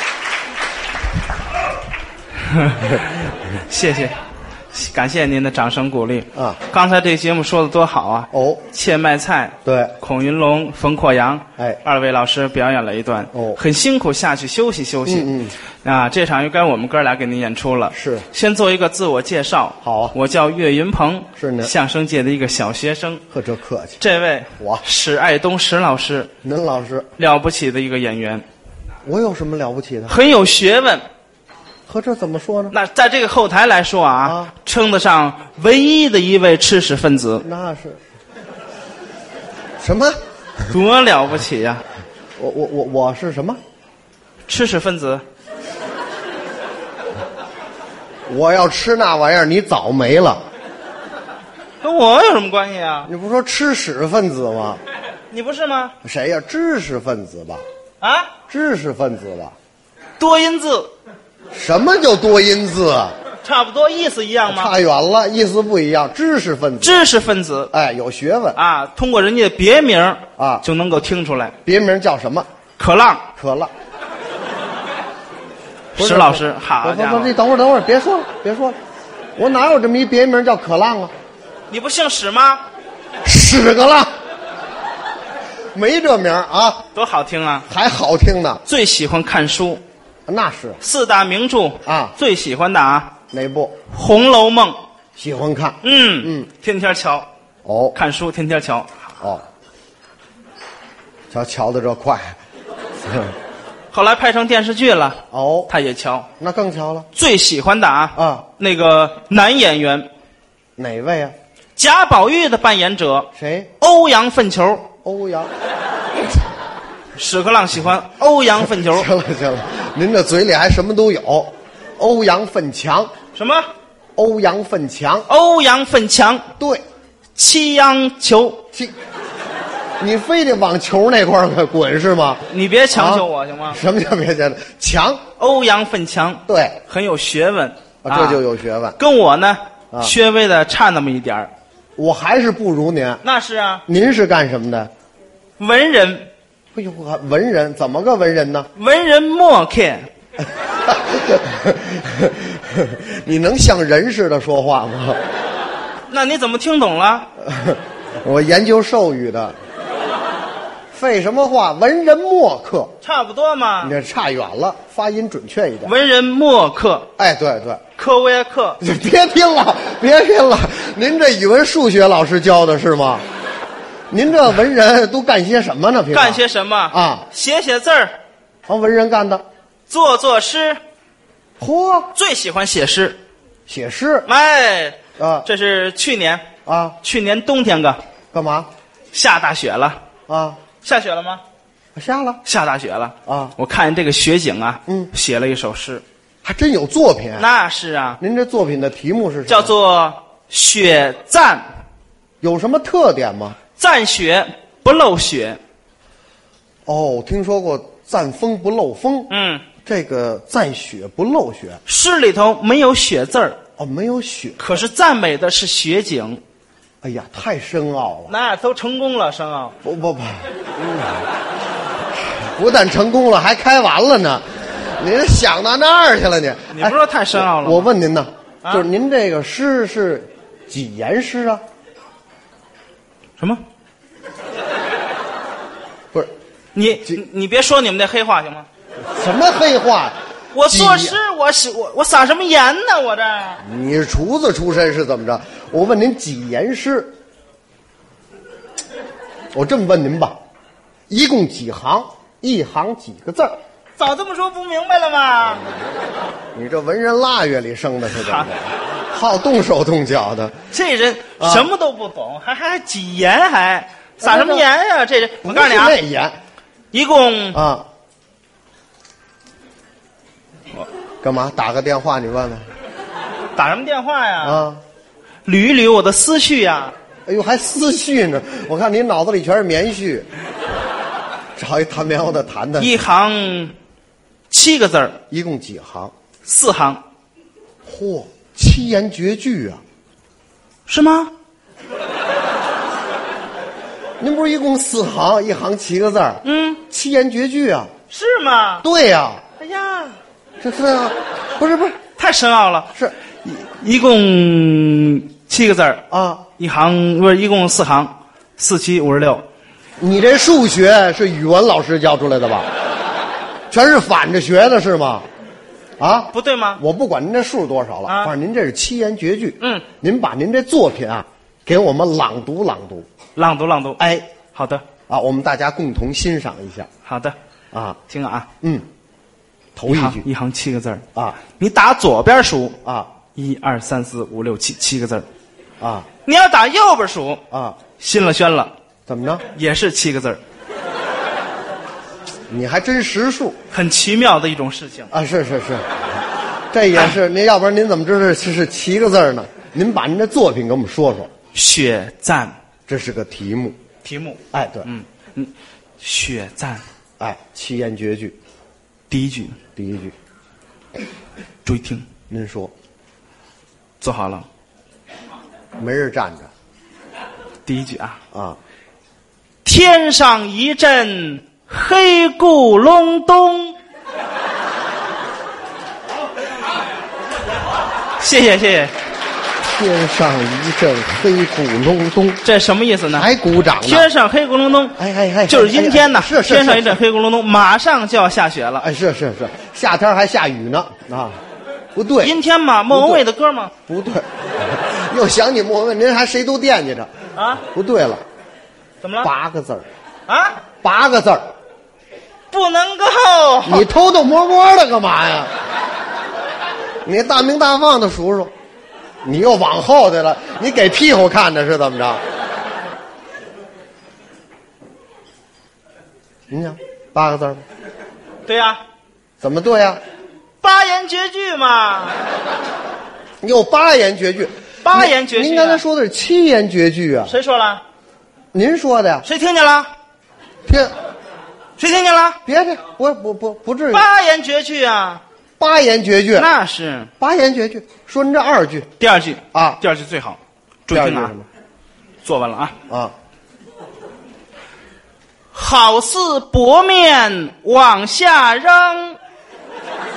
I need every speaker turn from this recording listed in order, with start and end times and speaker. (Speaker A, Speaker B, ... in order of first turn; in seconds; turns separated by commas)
Speaker A: 2.5-4.2, Speaker A: 4.7-15.3, Speaker B: 8.3-8.6, Speaker B: 9.7-9.9, Speaker B: 13.3-13.6, Speaker B: 15.1-15.6, Speaker A: 15.8-23.2, Speaker B: 17.9-18.2, Speaker B: 19.8-20.1, Speaker B: 21.4-21.7, Speaker B: 23.3-24.0, Speaker A: 24.0-26.3, Speaker B: 26.4-27.1, Speaker A: 27.2-28.4, Speaker B: 29.1-30.1, Speaker A: 30.1-31.1, Speaker B: 31.9-32.8, Speaker A: 32.7-37.5, Speaker B: 34.2-34.5, Speaker B: 37.4-38.0, Speaker B: 39.8-40.2, Speaker A: 40.7-41.8, Speaker B: 42.4-43.6, Speaker A: 44.5-45.2, Speaker B: 48.3-50.4, Speaker A: 51.8-53.1, Speaker B: 53.1-54.8, Speaker A: 55.3-56.0, Speaker B: 56.0-57.6, Speaker A: 58.0-58.3, Speaker B: 58.5-59.5, Speaker A: 60.2-60.9, Speaker B: 61.5-63.1, Speaker A: 63.4-64.7, Speaker B: 64.5-67.0, Speaker A: 66.8-67.7, Speaker B: 67.7-68.6, Speaker A: 68.5-71.6, Speaker B: 70.4-70.6, Speaker B: 71.7-72.5, Speaker A: 72.8-73.3, Speaker B: 73.4-73.7, Speaker A: 76.0-77.3, Speaker B: 76.0-78.8, Speaker B: 79.4-81.1, Speaker A: 81.7-82.6, Speaker B: 83.2-84.1, Speaker B: 85.7-86.8, Speaker A: 87.0-87.7, Speaker B: 87.7-88.6, Speaker A: 88.7-89.8, Speaker B: 90.3-90.8, Speaker A: 90.8-93.1, Speaker B: 91.8-92.1, Speaker B: 93.3-93.8, Speaker A: 93.9-94.8, Speaker B: 95.2-96.5, Speaker A: 95.8-97.3, Speaker B: 97.7-98.0, Speaker A: 97.9-99.2, Speaker B: 101.3-102.4, Speaker B: 103.0-103.4, Speaker A: 103.9-106.3, Speaker B: 105.3-105.7, Speaker B: 106.4-107.1, Speaker A: 107.2-110.1, Speaker B: 108.2-108.5, Speaker B: 110.8-111.3, Speaker A: 111.8-114.9, Speaker B: 113.3-113.7, Speaker B: 115.0-115.5, Speaker A: 117.2-119.1, Speaker B: 118.7-123.1, Speaker A: 123.3-123.7, Speaker B: 124.2-125.3, Speaker A: 125.3-126.5, Speaker A: 127.4-128.6, Speaker B: 130.0-135.2, Speaker A: 132.5-133.8, Speaker A: 135.4-138.4, Speaker B: 136.5-136.8, Speaker B: 138.0-139.0, Speaker A: 139.0-141.5, Speaker B: 142.0-143.2, Speaker A: 143.2-143.8, Speaker B: 143.9-144.9, Speaker A: 145.6-146.3, Speaker B: 146.8-148.7, Speaker A: 148.8-150.1, Speaker B: 150.9-155.2, Speaker A: 156.1-157.3, Speaker B: 157.4-159.6, Speaker B: 160.9-162.9, Speaker A: 163.0-163.9, Speaker B: 163.8-165.9, Speaker A: 165.8-167.1, Speaker B: 167.2-167.8, Speaker A: 168.0-168.8, Speaker B: 168.8-173.2, Speaker B: 174.1-177.2, Speaker A: 176.1-178.2, Speaker B: 178.7-179.4, Speaker A: 179.9-180.8, Speaker B: 181.6-182.1, Speaker A: 182.1-183.2, Speaker B: 183.7-184.3, Speaker A: 184.3-186.5, Speaker B: 185.2-185.5, Speaker B: 186.7-187.0, Speaker A: 187.0-188.0, Speaker B: 188.3-188.7, Speaker A: 189.1-190.0, Speaker B: 190.3-190.6, Speaker A: 190.8-191.4, Speaker B: 191.9-192.4, Speaker A: 192.4-196.0, Speaker B: 193.3-193.5, Speaker B: 196.4-197.5, Speaker A: 197.4-198.2, Speaker B: 198.2-199.7, Speaker A: 199.5-201.7, Speaker B: 202.4-203.6, Speaker A: 203.8-205.6, Speaker B: 206.9-209.3, Speaker A: 209.3-209.6, Speaker B: 209.8-211.8, Speaker A: 211.9-213.6, Speaker B: 213.8-214.8, Speaker A: 214.6-216.4, Speaker B: 217.0-218.3, Speaker A: 218.3-219.8, Speaker B: 219.8-221.3, Speaker B: 222.4-231.6, Speaker A: 226.7-227.9, Speaker A: 236.8-238.7, Speaker B: 239.1-240.2, Speaker A: 240.5-243.6, Speaker B: 240.7-241.2, Speaker B: 243.6-247.1, Speaker B: 249.5-250.4, Speaker B: 251.1-253.6, Speaker A: 254.0-255.7, Speaker B: 256.6-260.6, Speaker A: 258.1-258.5, Speaker A: 260.7-266.0, Speaker B: 261.4-261.7, Speaker B: 264.2-264.7, Speaker B: 265.4-266.4, Speaker A: 266.9-267.6, Speaker B: 267.5-267.9, Speaker B: 271.2-272.7, Speaker A: 273.6-274.6, Speaker B: 274.4-274.8, Speaker A: 275.5-276.9, Speaker B: 277.3-280.3, Speaker B: 281.6-283.0, Speaker A: 282.8-283.7, Speaker A: 284.5-285.2, Speaker B: 285.3-286.1, Speaker A: 286.4-287.0, Speaker B: 287.9-289.8, Speaker A: 290.9-291.3, Speaker B: 294.2-297.9, Speaker A: 296.4-296.8, Speaker A: 298.1-298.9, Speaker B: 298.8-299.4, Speaker A: 299.6-300.2, Speaker B: 300.6-302.0, Speaker A: 302.2-302.9, Speaker A: 303.4-306.0, Speaker B: 306.1-306.4, Speaker A: 306.6-309.4, Speaker B: 310.0-312.7, Speaker B: 313.7-315.3, Speaker B: 316.0-323.1, Speaker A: 316.3-316.8, Speaker A: 318.1-318.3, Speaker A: 319.6-319.9, Speaker A: 323.4-324.9, Speaker B: 324.0-324.3, Speaker B: 325.1-326.9, Speaker A: 327.1-327.4, Speaker B: 327.7-328.0, Speaker A: 328.1-328.5, Speaker B: 328.6-328.9, Speaker B: 329.8-330.2, Speaker A: 329.9-332.8, Speaker B: 332.9-333.1, Speaker A: 333.4-335.3, Speaker B: 335.8-336.1, Speaker A: 336.2-337.4, Speaker B: 337.5-337.8, Speaker A: 338.0-338.7, Speaker B: 339.1-339.4, Speaker A: 339.5-340.4, Speaker B: 342.5-343.6, Speaker A: 343.7-345.1, Speaker B: 345.1-345.9, Speaker B: 346.7-351.3, Speaker A: 351.5-352.6, Speaker B: 352.9-353.8, Speaker A: 354.0-356.8, Speaker B: 354.5-354.9, Speaker B: 357.2-358.4, Speaker A: 359.1-359.6, Speaker B: 359.8-360.1, Speaker A: 361.6-362.1, Speaker B: 362.3-362.7, Speaker A: 364.0-364.5, Speaker B: 365.8-366.5, Speaker A: 367.7-368.2, Speaker B: 368.3-368.6, Speaker A: 369.6-373.8, Speaker A: 378.2-378.9, Speaker B: 379.7-382.4, Speaker A: 382.4-383.3, Speaker B: 383.1-384.1, Speaker A: 383.8-388.9, Speaker B: 385.0-387.0, Speaker B: 388.8-391.4, Speaker B: 391.9-392.4, Speaker A: 392.2-393.7, Speaker B: 392.9-393.2, Speaker B: 393.9-397.1, Speaker A: 397.4-397.6, Speaker B: 397.7-398.2, Speaker A: 399.0-399.3, Speaker B: 399.2-399.9, Speaker A: 400.3-400.6, Speaker B: 400.8-401.5, Speaker A: 402.5-403.9, Speaker B: 403.6-405.5, Speaker B: 407.1-408.5, Speaker B: 409.2-412.2, Speaker B: 416.5-417.6, Speaker A: 418.5-418.8, Speaker B: 419.4-420.0, Speaker A: 420.6-422.2, Speaker B: 423.4-427.3, Speaker A: 424.8-425.8, Speaker A: 427.3-427.8, Speaker B: 428.5-429.3, Speaker A: 429.2-429.9, Speaker B: 430.7-430.9, Speaker A: 431.8-432.4, Speaker B: 432.5-434.1, Speaker A: 433.9-435.2, Speaker B: 435.6-436.5, Speaker A: 436.3-437.1, Speaker B: 437.2-438.9, Speaker A: 439.0-441.3, Speaker B: 439.5-439.8, Speaker B: 440.9-441.5, Speaker A: 442.2-442.8, Speaker B: 442.9-443.1, Speaker A: 445.5-449.2